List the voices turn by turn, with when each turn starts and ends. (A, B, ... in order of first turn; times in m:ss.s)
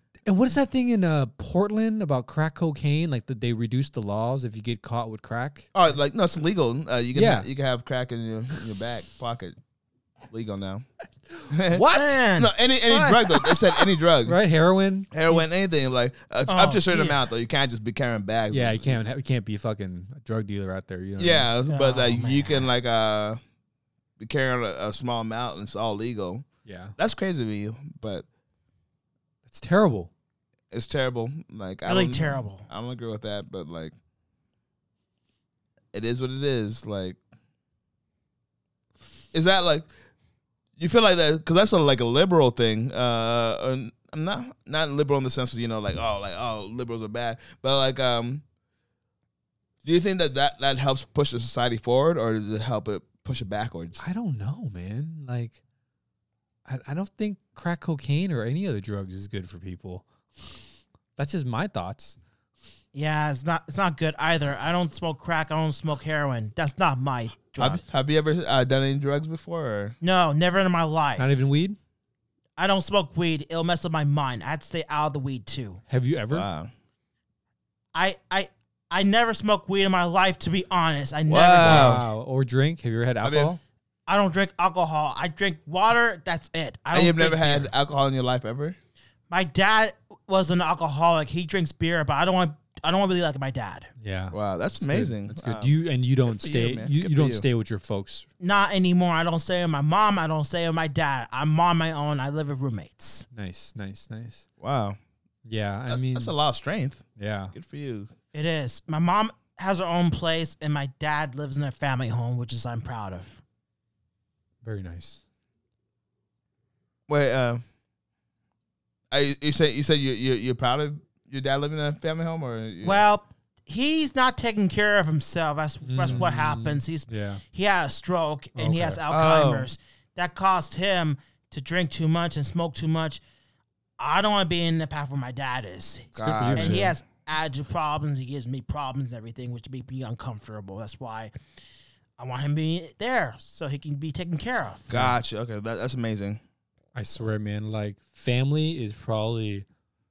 0:00.3-0:05.7 A
0:05.7-0:09.6 B
0:07.1-0:07.5 A
0:10.3-0:10.8 B
0:11.3-0:12.2 A
0:11.5-0:14.4 B
0:11.9-0:13.2 C
0:14.2-0:15.4 A
0:15.1-0:19.0 B
0:16.5-0:17.2 C
0:18.5-0:21.5 A
0:21.2-0:23.4 B
0:21.7-0:22.7 C
0:24.2-0:26.4 B
0:26.6-0:27.0 A
0:27.0-0:28.2 B
0:29.5-0:30.1 A
0:30.7-0:33.9 B
0:31.8-0:32.7 C
0:35.9-0:37.2 B
0:39.3-0:39.9 B
0:40.8-0:48.4 B
0:49.8-0:54.0 B
0:54.0-0:55.6 A
0:56.6-1:00.6 A
1:01.2-1:02.2 A
1:02.9-1:07.8 C
1:07.6-1:10.0 B
1:10.0-1:11.4 C
1:11.2-1:11.8 A
1:12.6-1:15.8 C
1:15.9-1:16.5 A
1:16.3-1:16.7 B
1:17.9-1:22.0 C
1:21.3-1:22.0 B
1:21.6-1:23.6 A
1:23.2-1:23.5 B
1:24.1-1:27.7 C
1:26.9-1:28.8 B
1:29.3-1:33.9 C
1:34.0-1:38.3 A
1:34.3-1:35.7 B
1:36.2-1:37.4 B
1:38.4-1:43.2 C
1:43.3-1:44.4 A
1:44.6-1:45.0 B
1:45.4-1:46.3 A
1:45.9-1:48.1 B
1:47.2-1:47.5 A
1:48.3-1:53.4 C
1:54.6-1:55.2 A
1:57.1-1:57.6 B
1:59.1-2:03.0 B
2:02.8-2:13.2 C
2:05.8-2:07.4 A
2:08.6-2:09.0 A
2:09.1-2:09.7 B
2:14.0-2:21.3 C
2:16.2-2:16.9 B
2:16.2-2:16.9 A
2:22.2-2:25.1 C
2:24.9-2:26.4 B
2:26.9-2:29.6 A